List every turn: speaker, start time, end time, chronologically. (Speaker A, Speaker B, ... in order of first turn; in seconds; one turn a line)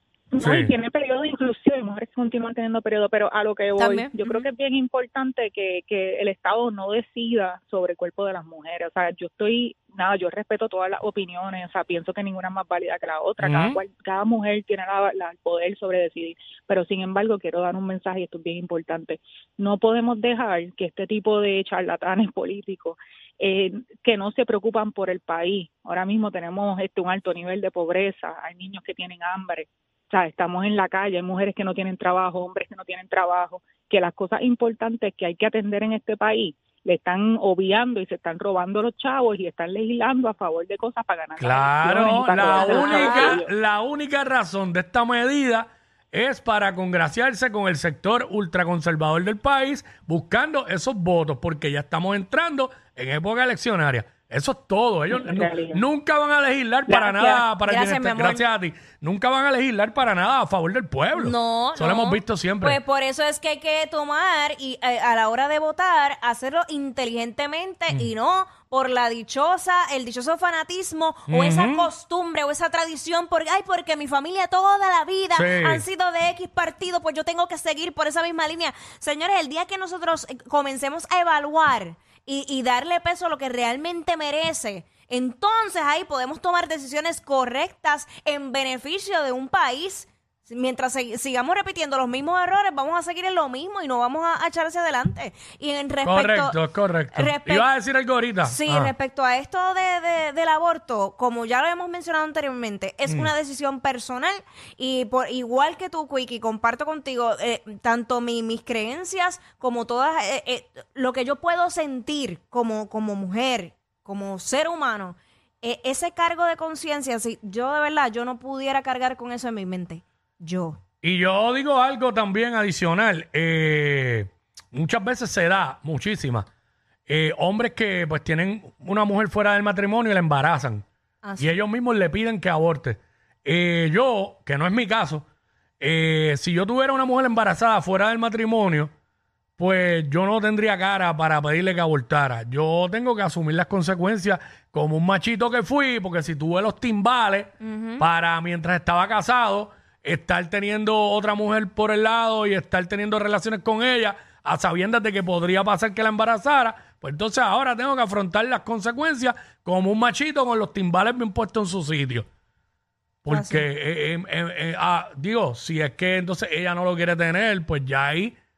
Speaker A: 0.3-43.5
Speaker B: 0.4-0.7
Speaker C: 3.8-4.5
Speaker B: 13.4-13.8
Speaker B: 41.4-62.8
Speaker C: 42.5-43.4
Speaker A: 55.1-55.8
Speaker C: 56.9-58.4
Speaker C: 61.1-96.6
Speaker B: 71.3-71.9
Speaker B: 75.3-75.8
Speaker B: 96.0-98.9
Speaker C: 97.1-97.7
Speaker C: 98.4-120.8
Speaker B: 103.1-103.3
Speaker B: 121.0-126.5
Speaker B: 127.1-130.8
Speaker C: 131.2-131.6
Speaker B: 131.4-135.2
Speaker B: 135.8-138.9
Speaker B: 139.6-162.3
Speaker C: 147.6-148.0
Speaker B: 163.2-168.4
Speaker C: 163.3-163.7